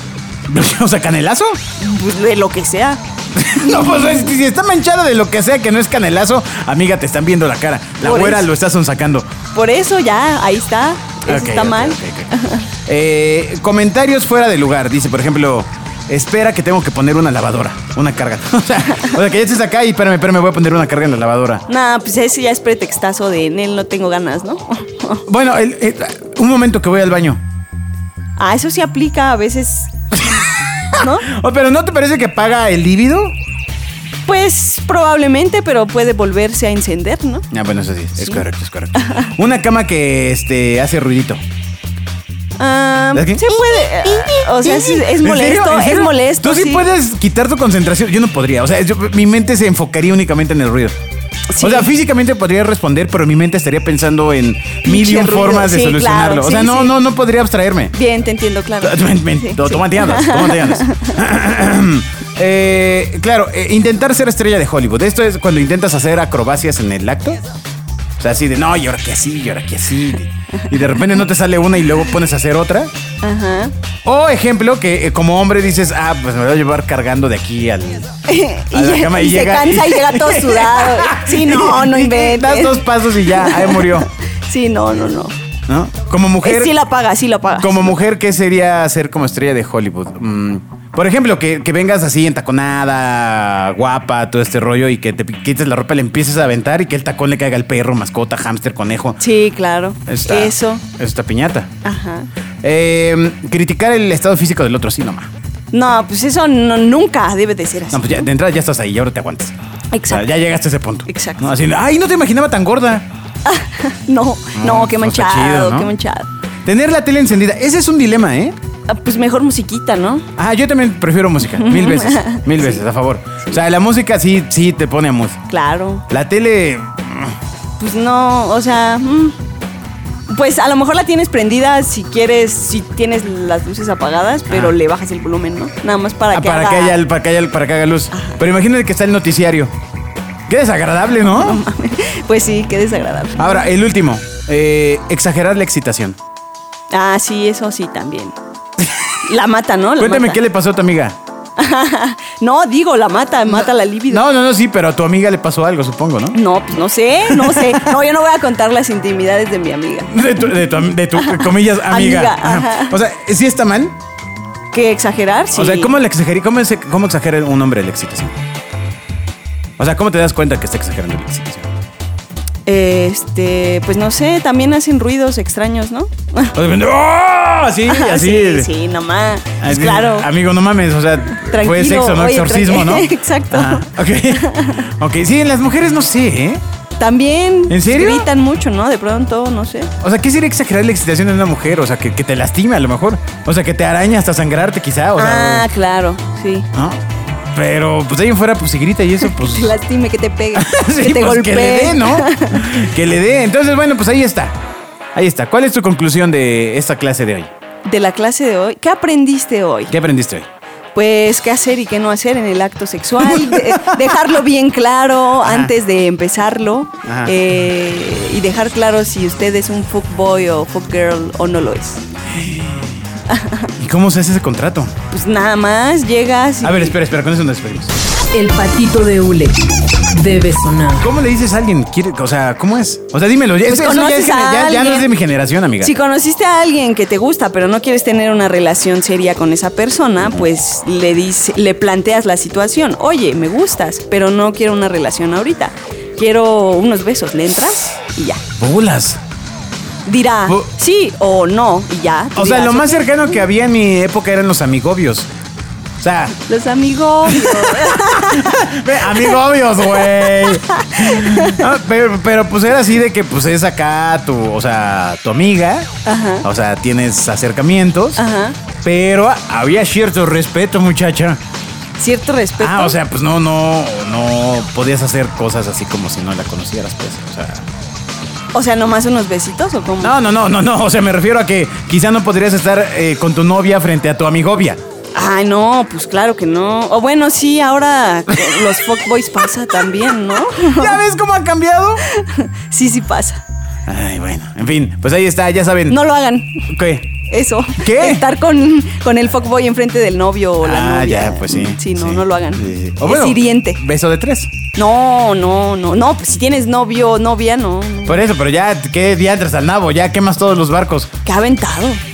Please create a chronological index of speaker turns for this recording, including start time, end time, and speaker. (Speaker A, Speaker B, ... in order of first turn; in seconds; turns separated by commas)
Speaker A: 0.5-1.6, Speaker B: 1.8-3.0, Speaker A: 3.3-9.3, Speaker B: 3.7-4.1, Speaker B: 8.0-8.5, Speaker B: 9.5-12.7, Speaker A: 11.3-12.3, Speaker A: 12.9-21.7, Speaker B: 21.7-25.2, Speaker A: 25.3-27.4, Speaker B: 28.4-30.3, Speaker A: 30.2-33.4, Speaker B: 30.9-31.3, Speaker B: 34.3-37.5, Speaker A: 37.5-41.4, Speaker B: 39.0-39.3, Speaker B: 42.6-46.9, Speaker A: 43.1-51.0, Speaker B: 51.5-51.9, Speaker A: 51.6-57.9, Speaker B: 54.9-57.0, Speaker B: 57.9-61.2, Speaker A: 58.8-67.4, Speaker A: 68.2-72.9, Speaker B: 73.2-73.7, Speaker A: 74.0-78.1, Speaker B: 78.3-85.3, Speaker A: 78.7-84.1, Speaker A: 85.7-86.7, Speaker B: 86.4-88.0, Speaker A: 87.6-99.2, Speaker B: 99.2-100.8, Speaker A: 100.1-101.7, Speaker B: 101.8-102.3, Speaker A: 102.6-105.3, Speaker B: 105.7-108.3, Speaker A: 107.9-109.5, Speaker B: 109.9-110.2, Speaker A: 110.1-113.1, Speaker B: 111.1-111.5, Speaker B: 113.5-116.3, Speaker A: 114.5-115.9, Speaker A: 116.7-118.6, Speaker B: 118.9-120.3, Speaker A: 120.4-125.4, Speaker B: 121.5-122.8, Speaker B: 125.5-126.1, Speaker A: 126.1-127.4, Speaker B: 127.8-129.4, Speaker B: 130.3-137.0, Speaker A: 134.5-134.8, Speaker A: 136.3-139.7, Speaker B: 138.1-138.4, Speaker A: 140.5-141.6, Speaker B: 141.2-143.7, Speaker A: 143.4-146.2, Speaker B: 146.9-148.3, Speaker B: 149.2-150.4, Speaker A: 150.0-151.2, Speaker B: 151.6-154.2, Speaker A: 153.5-156.4, Speaker B: 156.3-160.5, Speaker A: 157.3-157.9, Speaker A: 160.1-164.0, Speaker B: 161.2-163.0, Speaker B: 164.7-165.9, Speaker A: 165.5-168.4, Speaker A: 169.8-171.7, Speaker B: 172.7-176.6, Speaker A: 176.6-178.7, Speaker B: 177.8-180.3, Speaker A: 179.6-186.6, Speaker B: 181.3-184.9, Speaker B: 187.0-189.9, Speaker A: 187.7-188.3, Speaker A: 190.0-195.7, Speaker B: 195.2-196.7, Speaker A: 196.7-197.0, Speaker A: 197.5-199.8, Speaker B: 199.3-202.8, Speaker A: 200.6-204.6, Speaker A: 205.2-207.5, Speaker B: 207.9-209.9, Speaker A: 209.9-210.5, Speaker B: 210.9-222.0, Speaker A: 213.2-214.3, Speaker A: 215.4-215.7, Speaker A: 217.1-217.3, Speaker A: 222.3-223.0, Speaker B: 223.3-223.7, Speaker A: 223.8-224.9, Speaker B: 225.1-226.9, Speaker A: 226.6-227.9, Speaker C: 228.3-231.1, Speaker A: 231.0-235.9, Speaker B: 233.7-235.1, Speaker B: 235.8-248.4, Speaker A: 240.2-240.5, Speaker A: 248.6-249.2, Speaker B: 250.1-253.4, Speaker A: 252.4-255.3, Speaker A: 256.0-256.4, Speaker B: 256.5-259.4, Speaker A: 257.3-265.9, Speaker B: 259.9-261.6, Speaker B: 266.1-266.5, Speaker A: 266.4-268.2, Speaker B: 268.2-268.6, Speaker A: 268.8-271.4, Speaker B: 272.0-272.9, Speaker A: 272.6-277.7, Speaker B: 278.5-280.2, Speaker A: 280.0-284.8, Speaker B: 285.1-291.0, Speaker A: 288.3-288.7, Speaker A: 290.4-292.0, Speaker B: 292.1-293.4, Speaker A: 293.9-296.0, Speaker B: 295.9-296.7, Speaker A: 296.7-297.1, Speaker B: 297.3-303.8, Speaker A: 297.8-298.2, Speaker A: 300.6-304.5, Speaker B: 304.8-308.2, Speaker A: 308.1-311.1, Speaker B: 311.2-312.0